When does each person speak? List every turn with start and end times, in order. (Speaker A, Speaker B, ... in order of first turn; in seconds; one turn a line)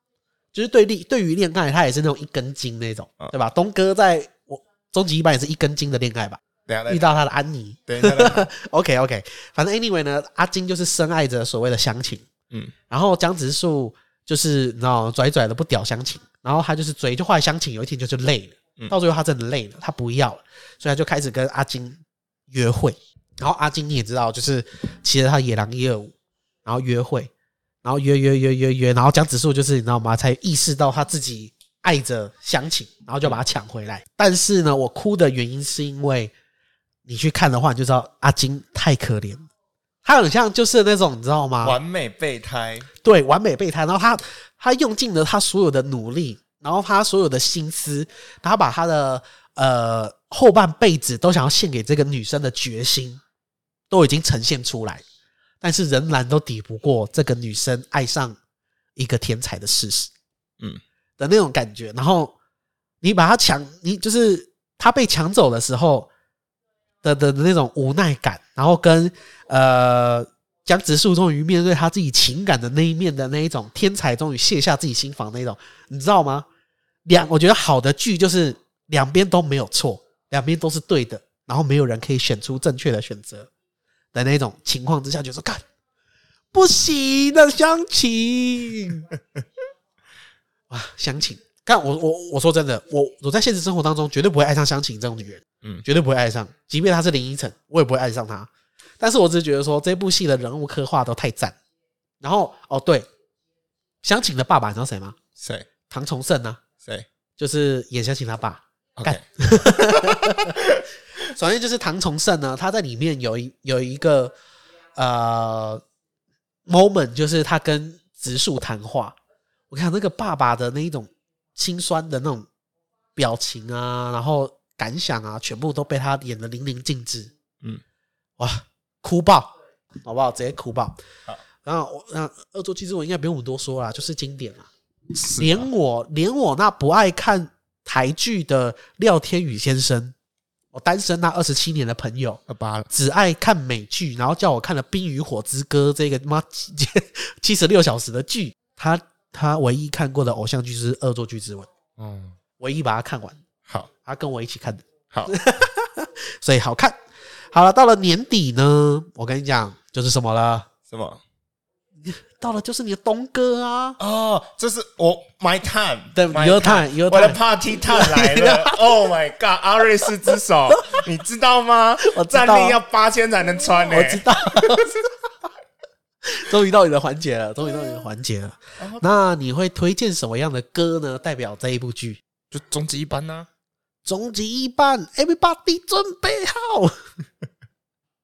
Speaker A: 0.5-12.2
Speaker B: 6.7-7.1
Speaker B: 7.9-8.5
Speaker A: 12.9-26.1
Speaker A: 26.6-27.3
Speaker A: 27.8-36.3
Speaker A: 37.0-39.5
Speaker A: 40.0-41.8
Speaker B: 41.6-42.9
Speaker A: 43.0-53.2
Speaker A: 53.9-55.0
Speaker A: 55.6-58.4
Speaker A: 59.0-60.1
Speaker A: 61.2-62.3
Speaker A: 63.0-66.1
Speaker A: 67.0-76.5
Speaker A: 77.0-83.5
Speaker A: 84.1-85.6
Speaker A: 86.5-89.1
Speaker A: 90.7-98.5
Speaker A: 99.0-101.5
Speaker A: 102.2-103.1
Speaker A: 104.0-105.2
Speaker B: 105.4-105.7
Speaker A: 105.9-106.6
Speaker A: 107.4-110.6
Speaker B: 109.0-110.8
Speaker A: 111.2-114.3
Speaker A: 115.0-115.8
Speaker A: 116.7-119.2
Speaker A: 119.7-122.5
Speaker A: 123.2-127.3
Speaker A: 128.4-129.5
Speaker A: 130.0-131.0
Speaker A: 131.6-134.7
Speaker B: 135.1-135.7
Speaker A: 135.4-140.1
Speaker A: 140.7-151.7
Speaker B: 142.5-142.9
Speaker B: 152.0-152.4
Speaker A: 152.6-153.4
Speaker A: 154.0-157.0
Speaker A: 157.5-160.7
Speaker B: 160.9-161.2
Speaker A: 162.0-164.0
Speaker B: 164.0-174.9
Speaker A: 166.1-168.8
Speaker A: 172.0-172.8
Speaker A: 173.8-175.0
Speaker A: 176.2-182.2
Speaker B: 178.8-179.0
Speaker B: 182.5-183.5
Speaker A: 184.0-187.0